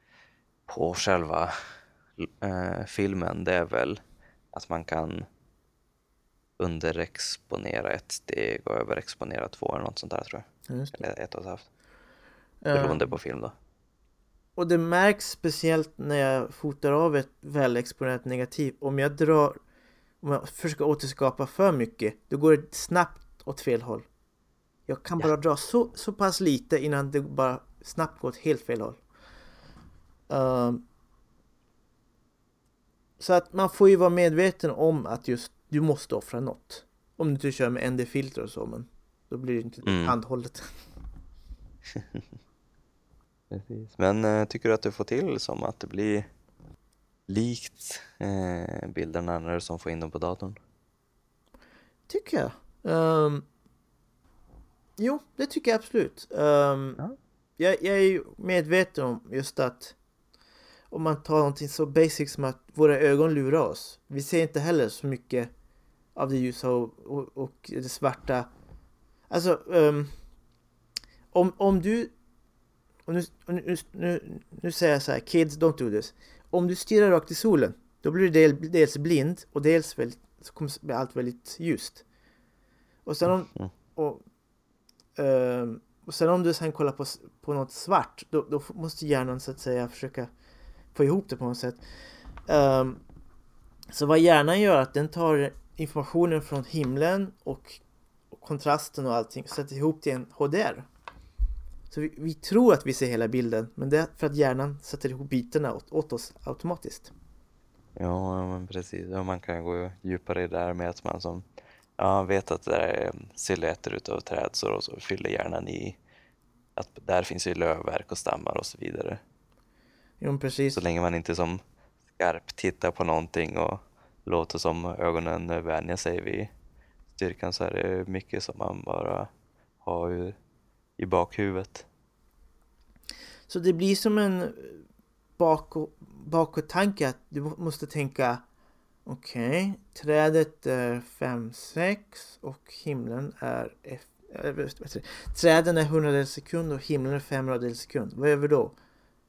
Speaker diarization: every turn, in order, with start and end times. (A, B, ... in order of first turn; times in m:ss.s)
0:00.7-0:01.5 A
0:02.2-0:04.0 A
0:04.5-0:05.3 A
0:06.6-0:11.7 A
0:10.7-0:11.0 B
0:12.6-0:13.1 B
0:12.7-0:13.5 A
0:14.6-0:19.6 B
0:20.2-0:24.1 B
0:24.9-0:29.0 B
0:30.3-0:30.8 B
0:33.2-0:40.7 B
0:39.8-0:40.2 A
0:41.9-0:42.2 A
0:43.5-0:46.3 A
0:47.3-0:50.6 A
0:52.1-0:53.5 B
0:55.0-0:57.0 B
0:57.6-1:00.0 B
1:00.9-1:05.5 B
1:06.2-1:08.5 B
1:09.3-1:10.1 B
1:11.3-1:12.1 B
1:13.1-1:22.0 B
1:23.1-1:24.2 B
1:25.2-1:30.3 B
1:30.9-1:31.8 B
1:32.5-1:33.0 B
1:33.9-1:37.8 B
1:38.3-1:40.9 B
1:41.9-1:47.1 B
1:48.0-1:51.4 A
1:52.0-1:56.0 A
1:56.8-1:59.2 A
2:00.2-2:00.8 B
2:00.7-2:01.6 A
2:02.2-2:06.5 A
2:07.1-2:09.3 A
2:09.8-2:10.4 A
2:11.0-2:11.9 A
2:13.5-2:14.8 B
2:15.4-2:18.4 B
2:19.1-2:28.8 B